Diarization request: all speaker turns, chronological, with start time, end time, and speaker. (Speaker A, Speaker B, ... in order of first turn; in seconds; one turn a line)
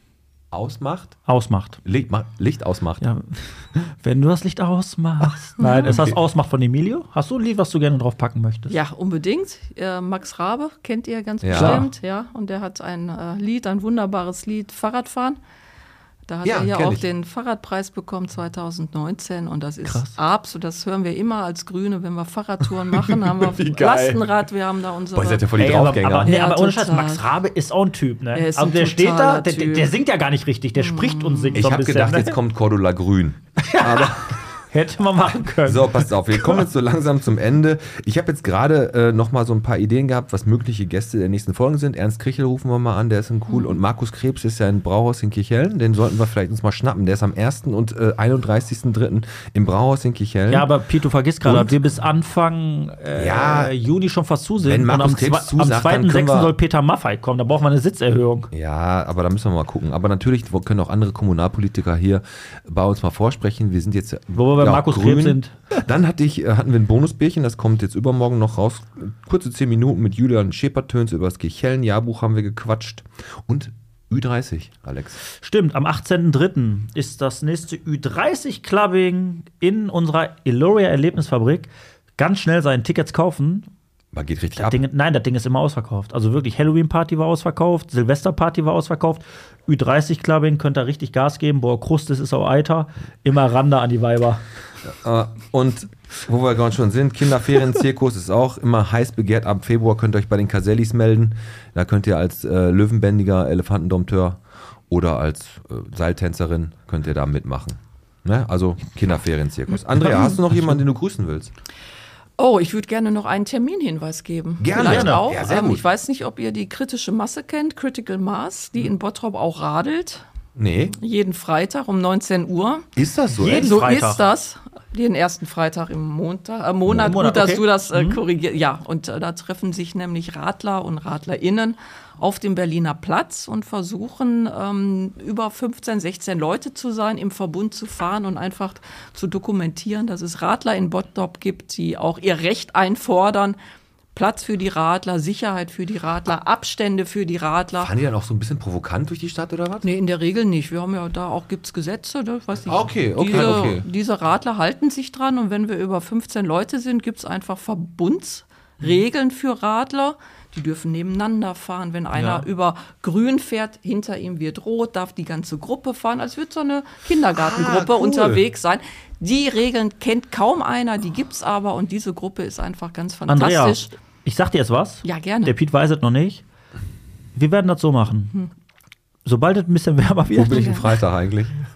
Speaker A: 0.5-1.2
Speaker B: 1.3-1.8
Speaker A: 1.9-3.0
Speaker B: 3.0-8.8
Speaker C: 5.6-5.9
Speaker A: 5.9-6.1
Speaker C: 8.7-15.4
Speaker A: 11.4-11.8
Speaker B: 11.5-11.9
Speaker C: 16.3-27.3
Speaker A: 16.4-17.0
Speaker B: 19.9-20.1
Speaker A: 23.2-24.3
Speaker A: 25.1-26.3
Speaker B: 25.6-32.4
Speaker C: 28.4-29.9
Speaker C: 30.8-31.6
Speaker A: 31.6-34.4
Speaker B: 33.6-36.6
Speaker A: 35.6-50.7
Speaker C: 43.5-43.8
Speaker B: 50.5-58.5
Speaker A: 51.4-51.8
Speaker A: 53.1-53.8
Speaker A: 54.6-56.5
Speaker A: 58.5-75.2
Speaker B: 64.3-65.8
Speaker B: 75.4-83.7
Speaker A: 84.1-84.8
Speaker B: 84.6-94.4
Speaker A: 94.8-111.5
Speaker B: 110.5-110.8
Speaker C: 112.4-120.3
Speaker A: 114.6-115.9
Speaker B: 114.7-115.2
Speaker A: 120.6-121.0
Speaker C: 121.0-122.9
Speaker A: 123.0-123.8
Speaker B: 123.4-124.2
Speaker C: 123.5-143.6
Speaker B: 126.9-128.2
Speaker C: 144.2-147.9
Speaker A: 147.8-149.9
Speaker C: 149.8-173.9
Speaker A: 152.7-153.9
Speaker B: 162.2-162.4
Speaker A: 167.3-168.4
Speaker B: 173.3-176.4
Speaker C: 175.0-175.6
Speaker B: 177.3-178.4
Speaker B: 179.2-180.8
Speaker A: 180.3-181.6
Speaker C: 180.5-180.8